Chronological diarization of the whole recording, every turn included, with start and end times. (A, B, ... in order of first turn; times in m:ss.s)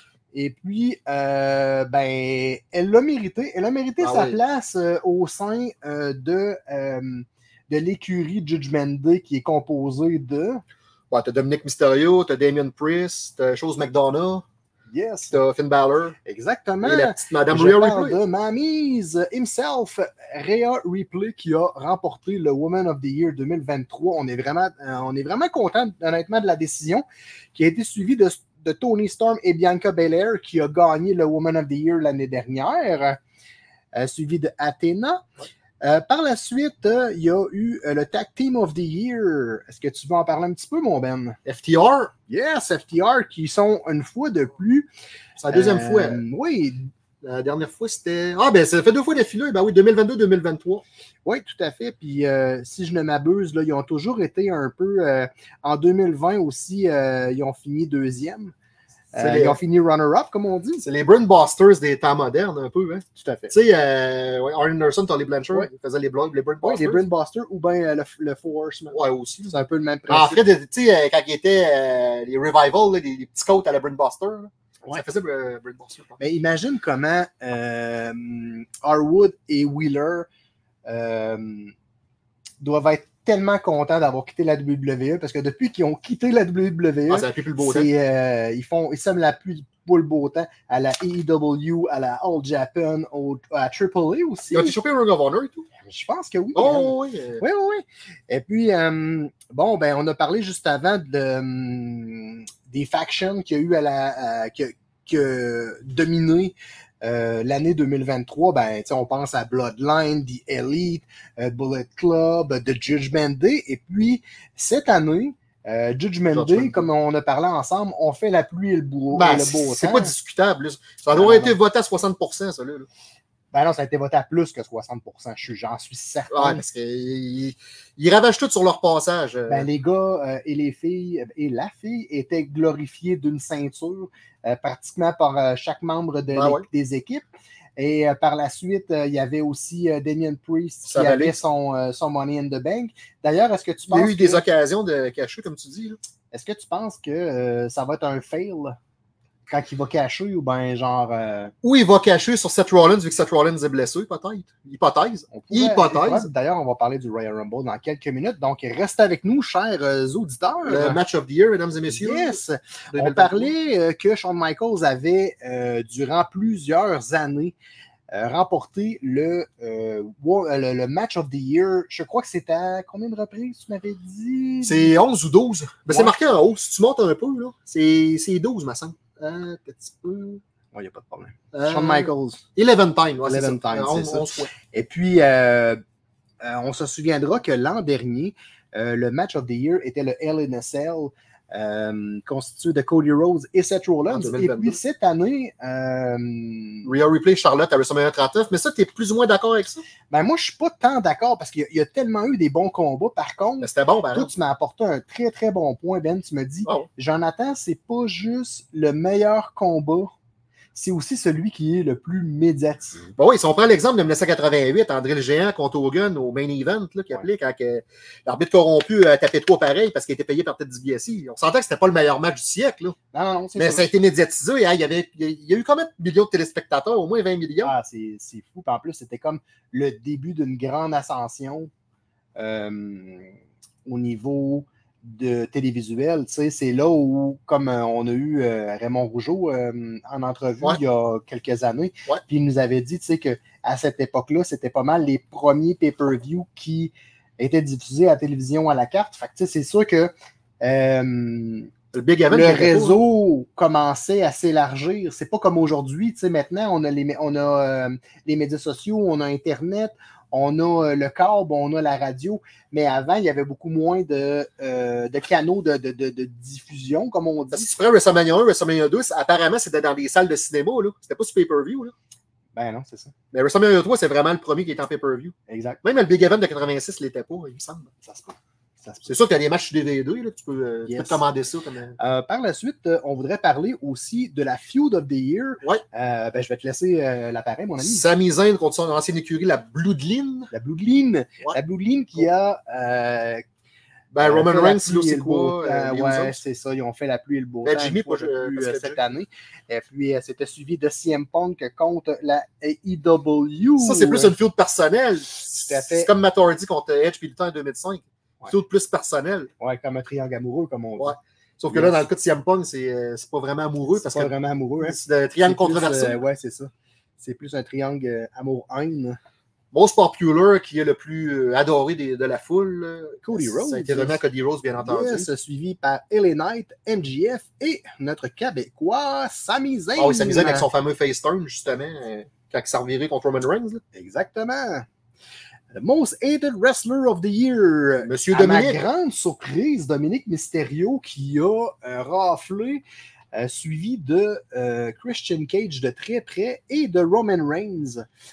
0:00.3-0:10.6 A
0:04.0-0:04.4 B
0:11.1-0:14.4 B
0:14.9-0:15.4 A
0:15.3-0:16.2 B
0:16.2-0:33.2 A
0:16.8-0:18.2 B
0:33.9-0:35.2 A
0:35.8-0:41.4 A
0:41.4-0:42.1 B
0:42.3-0:44.9 A
0:45.4-0:46.2 B
0:45.5-0:46.9 A
0:47.2-0:50.8 B
0:51.2-0:58.5 A
0:59.1-1:00.8 A
0:59.2-0:59.6 B
1:00.8-1:07.0 B
1:03.2-1:03.5 A
1:06.6-1:10.4 A
1:08.9-1:09.6 B
1:10.1-1:16.2 B
1:16.2-1:20.3 A
1:20.8-1:21.7 A
1:22.6-1:34.8 A
1:27.1-1:27.9 B
1:34.5-1:35.7 B
1:35.8-2:00.1 A
1:36.5-1:37.4 B
1:56.3-1:56.9 B
1:59.1-2:02.9 B
2:01.1-2:01.6 A
2:03.5-2:06.6 A
2:06.3-2:09.7 B
2:09.5-2:17.2 A
2:16.3-2:16.6 B
2:17.8-2:24.4 A
2:20.8-2:21.4 B
2:23.9-2:26.0 B
2:26.3-2:28.8 A
2:29.5-2:31.5 A
2:31.6-2:36.3 B
2:35.3-2:41.0 A
2:40.6-2:42.4 B
2:41.9-2:47.5 A
2:42.9-2:43.5 B
2:48.1-2:55.0 A
2:54.6-3:00.4 B
2:55.9-2:56.2 A
3:00.7-3:02.4 A
3:01.5-3:04.5 B
3:03.2-3:05.8 A
3:06.4-3:16.9 A
3:14.1-3:14.8 B
3:16.8-3:19.8 B
3:20.1-3:30.1 A
3:23.6-3:24.3 B
3:30.7-3:33.1 A
3:33.2-3:43.0 B
3:43.1-3:43.9 A
3:43.6-3:47.7 B
3:47.6-3:51.7 A
3:52.4-3:53.3 A
3:53.8-4:11.7 A
4:11.9-4:13.0 B
4:12.3-4:27.7 A
4:27.5-4:31.9 B
4:32.5-4:33.1 A
4:33.3-4:37.9 B
4:35.5-4:35.8 A
4:38.0-4:39.2 A
4:39.0-4:42.0 B
4:40.9-4:41.2 A
4:42.0-4:48.0 A
4:47.8-4:50.5 B
4:50.5-4:53.4 A
4:54.1-4:56.4 B
4:54.2-5:04.4 A
4:57.6-4:59.0 B
5:03.8-5:09.5 B
5:05.5-5:06.1 A
5:09.6-5:11.2 A
5:11.0-5:16.2 B
5:11.7-5:12.1 A
5:13.9-5:19.2 A
5:19.7-5:25.3 B
5:23.2-5:24.2 A
5:24.8-5:30.7 A
5:30.0-5:33.8 B
5:33.9-5:34.9 A
5:35.7-5:48.0 A
5:38.0-5:38.8 B